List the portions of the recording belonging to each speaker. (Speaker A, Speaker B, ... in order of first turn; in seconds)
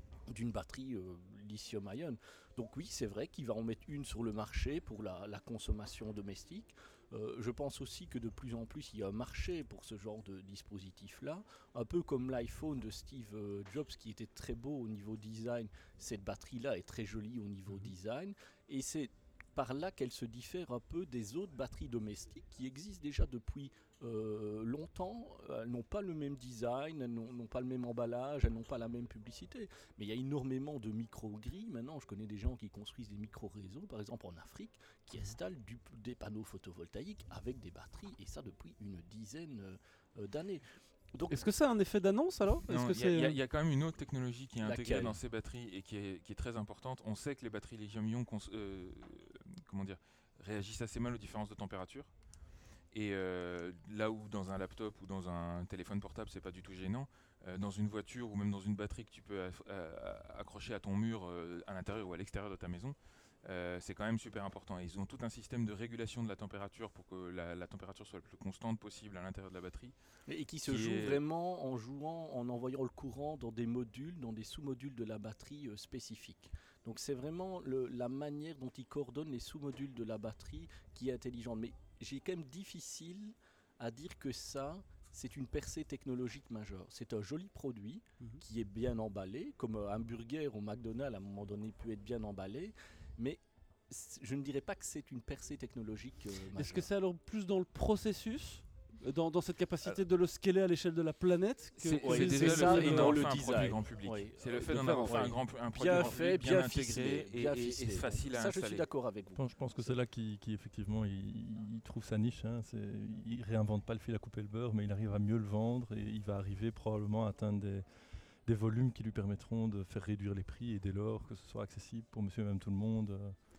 Speaker A: 0.3-41.4, 44.6-45.1, 70.3-96.9, 101.9-110.0
Speaker B: 41.3-43.4, 96.5-103.7, 104.5-105.3, 105.9-106.2
Speaker C: 42.7-52.1, 52.9-69.9, 70.6-71.2, 101.8-108.9
Speaker D: 109.3-117.8, 118.5-123.3